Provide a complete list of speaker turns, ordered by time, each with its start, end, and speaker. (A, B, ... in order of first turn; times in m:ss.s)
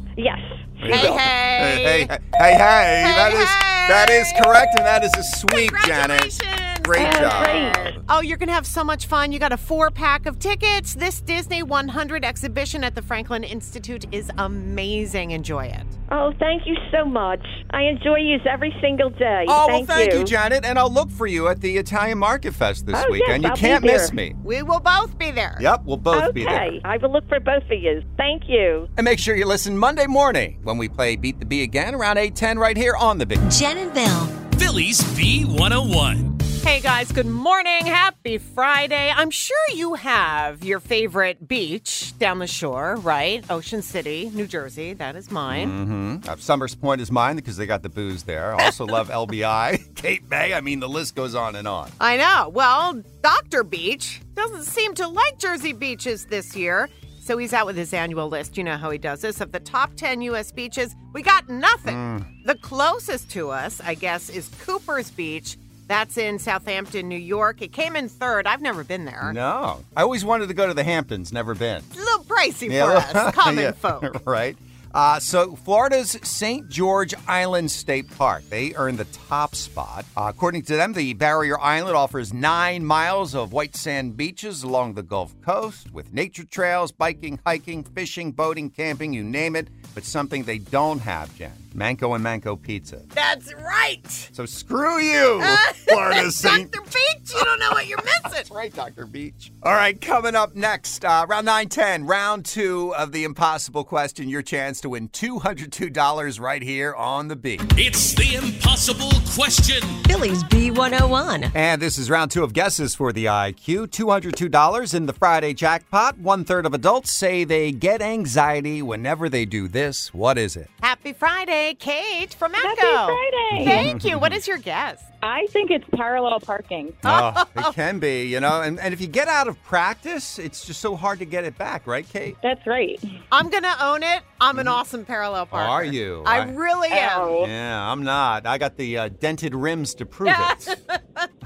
0:00.2-0:01.2 A
0:00.8-0:08.0 B
0:00.9-0:04.9 C
0:05.5-0:15.9 C
0:07.0-0:07.8 A
0:16.1-0:20.3 A
0:19.5-0:24.4 B
0:22.9-0:24.1 A
0:24.4-0:25.7 C
0:25.6-0:26.8 B
0:26.1-0:28.9 A
0:29.0-0:33.4 B
0:33.4-0:34.4 D
0:34.5-0:36.4 E
0:36.6-0:45.8 C
0:45.5-0:51.9 B
0:52.0-1:09.4 C
1:01.9-1:02.3 B
1:09.2-1:11.9 B
1:11.9-1:14.1 C
1:12.7-1:33.1 B
1:33.1-1:34.3 C
1:34.3-1:36.7 B
1:35.4-1:38.5 C
1:38.4-1:47.8 B
1:47.8-1:50.0 E
1:50.1-1:51.5 D
1:51.5-2:00.7 B
2:00.8-2:05.1 C
2:02.6-2:03.9 F
2:03.5-2:04.4 B
2:05.2-2:07.0 F
2:07.0-2:07.7 C
2:07.0-2:12.4 B
2:12.4-2:13.0 F
2:13.3-2:17.5 C
2:15.5-2:16.5 B
2:16.9-2:17.5 A
2:17.4-2:20.7 B
2:20.2-2:21.3 C